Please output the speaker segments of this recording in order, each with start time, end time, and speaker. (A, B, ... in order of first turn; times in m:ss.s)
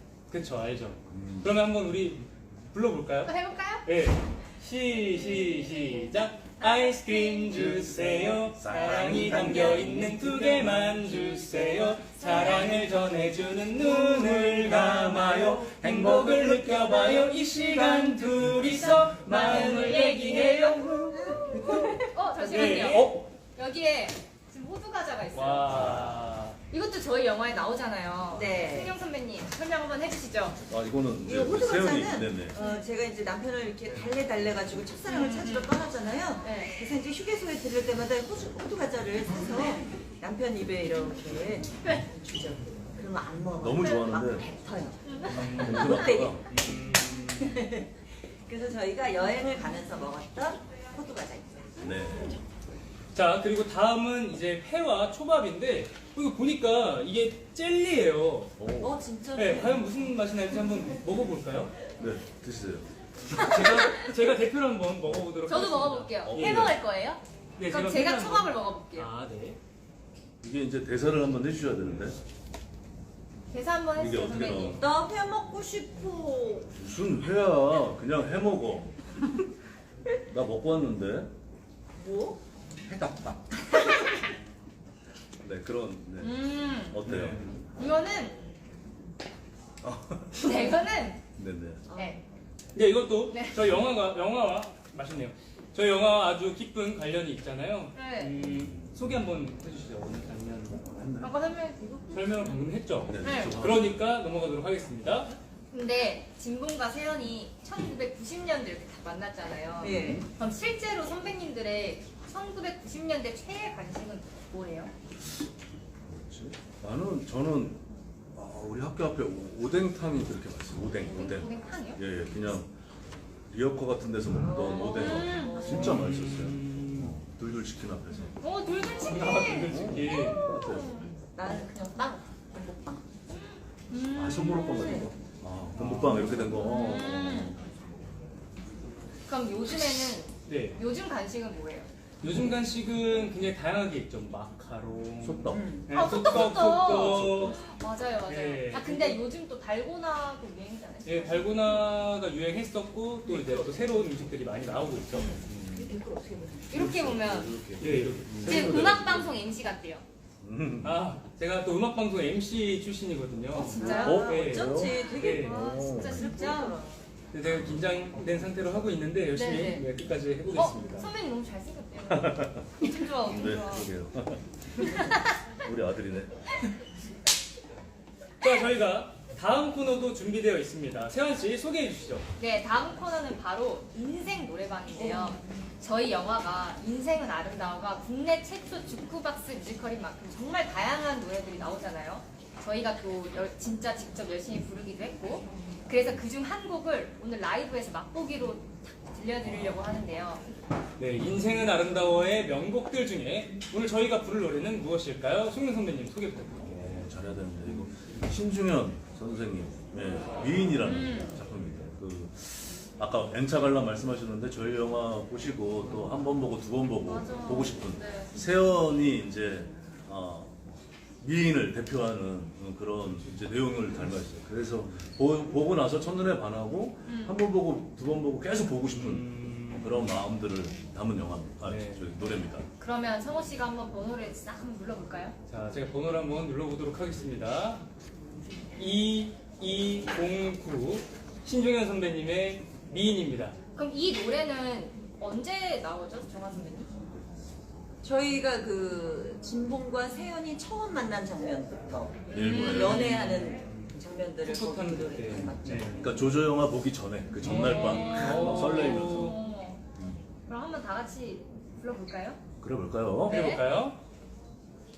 0:00.3-0:21.9 A
0:01.1-0:01.5 B
0:03.2-0:03.9 C
0:06.6-0:07.7 C
0:07.5-0:10.2 B
0:09.1-0:10.0 D
0:19.3-0:22.9 D
0:19.6-0:20.7 C
0:21.5-0:22.0 B
0:22.1-0:26.0 C
0:22.5-0:23.2 A
0:25.3-0:26.6 A
0:25.7-0:26.2 B
0:26.7-0:30.6 C
0:28.3-0:29.0 D
0:30.7-0:32.6 B
0:31.2-0:46.4 D
0:32.6-0:32.9 C
0:35.1-0:35.8 C
0:36.4-0:36.8 C
0:43.6-0:44.5 B
0:45.0-0:46.0 C
0:45.3-0:47.6 A
0:45.3-0:46.4 B
0:47.0-0:52.4 D
0:51.8-0:52.4 B
0:53.1-0:58.6 A
0:58.6-0:59.0 B
0:58.8-0:59.9 D
0:59.3-1:01.7 A
1:02.0-1:02.9 B
1:03.3-1:06.7 A
1:05.5-1:09.1 C
1:06.2-1:06.8 B
1:07.6-1:09.6 A
1:10.4-1:12.2 B
1:13.5-1:14.9 C
1:14.0-1:14.8 B
1:14.7-1:16.7 D
1:16.8-1:19.0 B
1:20.3-1:21.3 B
1:22.0-1:22.4 D
1:23.7-1:24.1 D
1:25.4-1:27.5 B
1:26.2-1:27.0 C
1:27.1-1:27.6 A
1:27.8-1:28.5 C
1:29.8-1:30.8 B
1:30.4-1:31.2 C
1:31.4-1:31.8 B
1:31.9-1:32.2 D
1:31.9-1:32.2 C
1:32.8-1:40.8 A
1:33.3-1:33.7 C
1:37.9-1:38.4 C
1:38.5-1:39.0 B
1:40.8-1:41.4 B
1:41.2-1:42.6 C
1:42.1-1:45.3 A
1:43.1-1:44.1 B
1:43.2-1:43.6 C
1:45.7-1:54.9 C
1:49.8-1:50.3 D
1:49.9-1:50.3 B
1:56.0-1:57.8 B
1:58.4-2:02.7 B
2:01.0-2:02.0 C
2:03.5-2:08.4 B
2:04.4-2:06.1 D
2:04.7-2:06.0 C
2:05.6-2:07.2 A
2:08.4-2:11.7 C
2:08.9-2:10.5 A
2:09.4-2:10.9 B
2:11.4-2:13.0 D
2:13.3-2:15.1 C
2:14.1-2:17.6 B
2:14.5-2:15.1 D
2:15.8-2:16.5 A
2:16.5-2:17.6 C
2:19.3-2:21.9 C
2:20.5-2:20.8 A
2:22.2-2:27.6 A
2:25.2-2:27.6 B
2:25.5-2:25.9 D
2:25.9-2:31.8 C
2:28.2-2:29.2 A
2:31.0-2:35.3 A
2:33.2-2:33.9 D
2:35.1-2:35.4 C
2:35.5-2:35.9 B
2:35.7-2:36.7 D
2:36.7-2:37.6 C
2:36.7-2:39.4 B
2:37.8-2:39.0 A
2:38.4-2:40.0 C
2:40.4-2:41.0 B
2:40.8-2:45.6 A
2:43.5-2:44.3 C
2:43.6-2:47.0 D
2:43.8-2:46.3 B
2:44.8-2:46.8 C
2:47.3-2:51.1 A
2:47.4-2:47.8 B
2:49.3-2:49.9 C
2:50.5-2:53.9 C
2:52.1-2:54.9 B
2:54.8-2:55.4 C
2:55.6-2:56.4 B
2:58.4-3:02.3 A
3:02.4-3:20.4 C
3:04.9-3:05.4 D
3:21.0-3:26.7 A
3:26.6-3:40.6 B
3:30.8-3:31.4 C
3:37.0-3:38.4 C
3:41.2-3:52.7 B
3:47.1-3:47.4 C
3:48.9-3:50.1 A
3:51.6-3:52.1 A
3:52.8-3:55.4 C
3:55.5-3:57.8 A
3:58.8-4:03.6 A
4:03.8-4:06.9 C
4:08.0-4:16.1 D
4:12.3-4:13.3 B
4:12.3-4:13.0 C
4:12.7-4:13.7 A
4:14.4-4:16.1 A
4:15.9-4:19.4 B
4:17.4-4:19.4 A
4:17.5-4:19.8 C
4:20.5-4:22.4 C
4:22.6-4:23.4 B
4:23.3-4:23.6 C
4:23.3-4:24.0 A